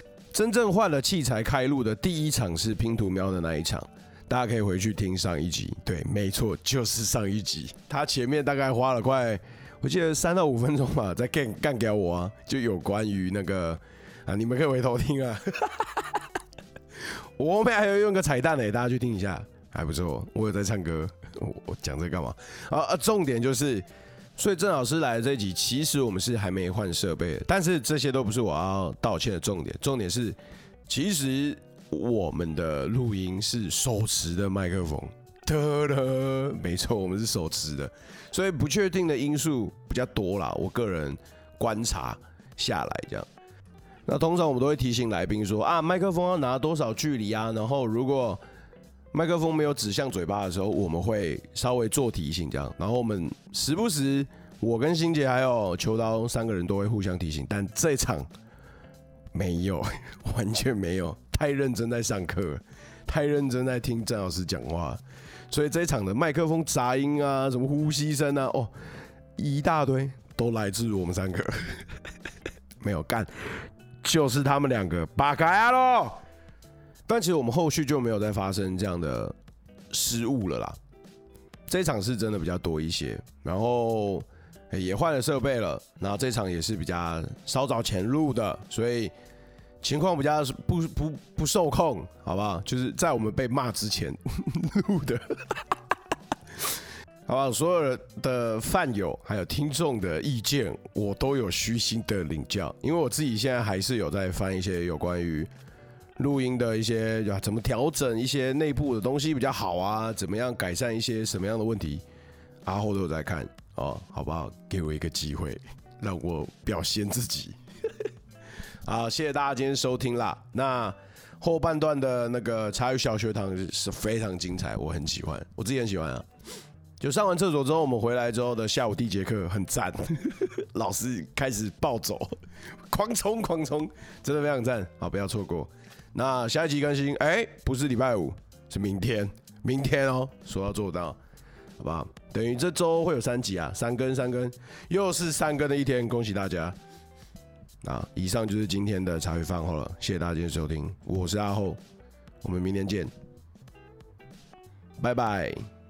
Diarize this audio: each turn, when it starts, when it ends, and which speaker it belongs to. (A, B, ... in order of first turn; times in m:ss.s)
0:00.3-0:16.2 A
0:17.4-0:23.8 A
0:24.4-0:30.4 A
0:30.9-0:43.2 A
0:44.0-0:48.4 A
0:49.1-0:58.3 A
0:59.3-1:08.7 A
1:09.4-1:11.8 A
1:12.8-1:16.2 A
1:17.1-1:19.3 A
1:19.9-1:20.8 A
1:21.7-1:29.1 A
1:29.8-1:35.8 A
1:37.3-1:45.5 A
1:46.2-1:52.0 A
1:52.6-1:57.5 A
1:58.8-2:06.2 A
2:07.0-2:12.3 A
2:12.9-2:21.2 A
2:21.8-2:26.7 A
2:27.8-2:31.8 A
2:32.4-2:33.1 A
2:35.0-2:35.6 A